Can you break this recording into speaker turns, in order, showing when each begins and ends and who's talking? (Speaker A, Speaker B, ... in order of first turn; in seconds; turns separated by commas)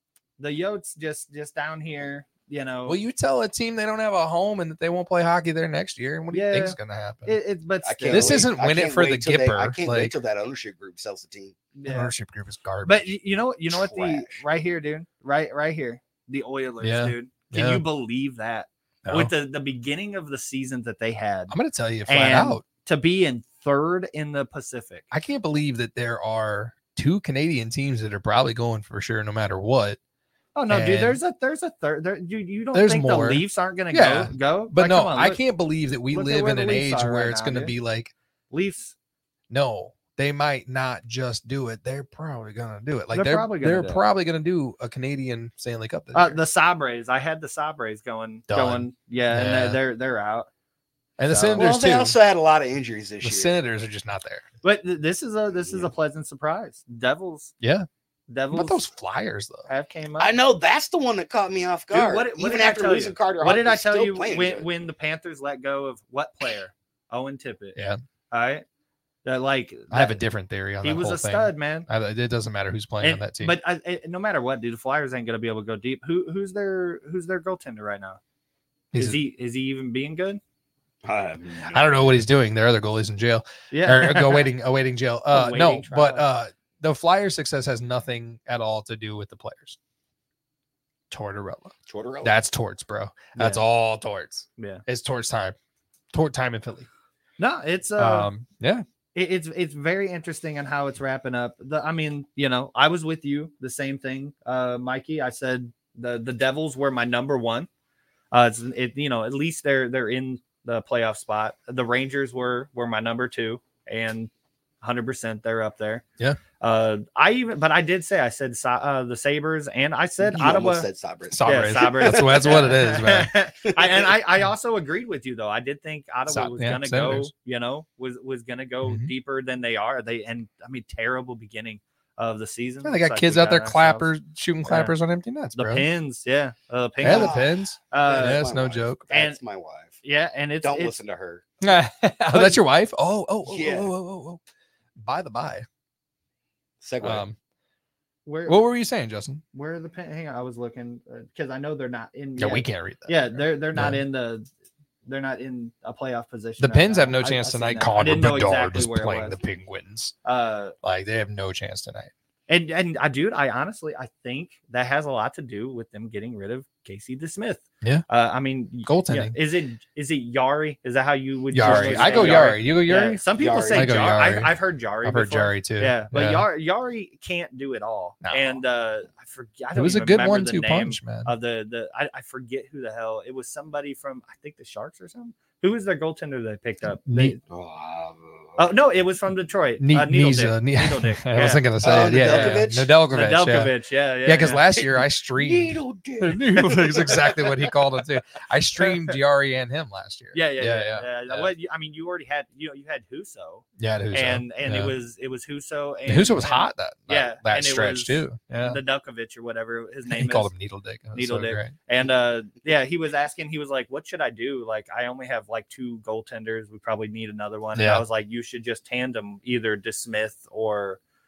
Speaker A: 0.4-3.0, Speaker B: 2.9-7.3, Speaker A: 6.3-8.4, Speaker C: 7.8-11.6, Speaker B: 8.1-10.1, Speaker A: 11.8-12.1, Speaker B: 11.9-13.1, Speaker A: 12.8-21.5, Speaker C: 13.7-14.4, Speaker B: 16.8-17.8, Speaker B: 19.1-19.3, Speaker B: 21.5-22.6, Speaker A: 22.1-25.1, Speaker B: 25.1-30.0, Speaker A: 30.6-35.4, Speaker B: 30.7-31.2, Speaker B: 32.7-38.1, Speaker A: 36.1-37.7, Speaker A: 38.5-39.0, Speaker B: 39.5-46.4, Speaker A: 43.1-44.0, Speaker A: 46.1-50.5, Speaker B: 48.5-49.8, Speaker B: 51.2-52.2, Speaker A: 51.3-51.6, Speaker C: 51.5-53.6, Speaker B: 53.2-54.5, Speaker A: 54.6-57.5, Speaker C: 55.5-55.9, Speaker B: 57.6-57.9, Speaker A: 58.3-58.8, Speaker B: 58.5-59.7, Speaker A: 59.7-60.3, Speaker C: 60.2-64.7, Speaker A: 61.9-67.8, Speaker B: 67.8-68.0, Speaker A: 68.3-68.6, Speaker A: 69.2-70.2, Speaker B: 69.9-73.6, Speaker A: 70.8-71.9, Speaker A: 73.0-78.2, Speaker B: 78.9-79.2, Speaker A: 79.0-80.4, Speaker C: 81.0-81.8, Speaker B: 81.7-89.8, Speaker A: 83.7-84.5, Speaker A: 85.3-86.3, Speaker B: 91.1-91.7, Speaker C: 91.9-92.3, Speaker B: 92.2-95.6, Speaker A: 93.3-93.6, Speaker A: 94.6-94.8, Speaker B: 96.1-96.9, Speaker A: 97.4-98.3, Speaker B: 98.0-98.8, Speaker A: 99.2-107.7, Speaker A: 108.3-114.3, Speaker A: 114.8-116.0, Speaker A: 116.6-120.9, Speaker C: 120.2-122.7, Speaker B: 121.3-123.3, Speaker A: 121.5-134.1, Speaker C: 123.7-124.1, Speaker B: 126.3-127.3, Speaker B: 128.8-129.1, Speaker B: 132.8-135.9, Speaker A: 134.7-134.9, Speaker A: 135.6-137.4, Speaker B: 137.0-139.1, Speaker C: 137.0-140.0, Speaker A: 137.9-138.4, Speaker A: 139.1-139.4, Speaker A: 140.0-140.9, Speaker C: 140.6-141.8, Speaker B: 141.6-144.4, Speaker C: 142.3-142.6, Speaker C: 143.5-143.9, Speaker B: 145.0-145.7, Speaker C: 146.8-147.2, Speaker B: 147.0-147.4, Speaker A: 148.3-148.6, Speaker B: 148.5-149.4, Speaker A: 149.5-154.5, Speaker B: 152.4-154.0, Speaker A: 155.1-159.4, Speaker B: 156.6-160.2, Speaker A: 160.2-160.7, Speaker B: 160.8-162.1, Speaker A: 162.5-187.4, Speaker B: 168.9-169.3, Speaker B: 171.5-176.5, Speaker C: 171.6-172.6, Speaker C: 173.4-174.0, Speaker B: 178.2-178.6, Speaker B: 179.8-181.3, Speaker B: 187.1-187.4, Speaker C: 187.5-188.6, Speaker A: 188.6-194.6, Speaker B: 189.8-193.7, Speaker C: 191.8-192.9, Speaker B: 194.2-201.5, Speaker C: 194.7-197.8, Speaker A: 200.3-210.5, Speaker B: 203.8-204.9, Speaker B: 206.1-208.8, Speaker B: 210.1-211.7, Speaker A: 211.2-221.0, Speaker B: 217.8-218.0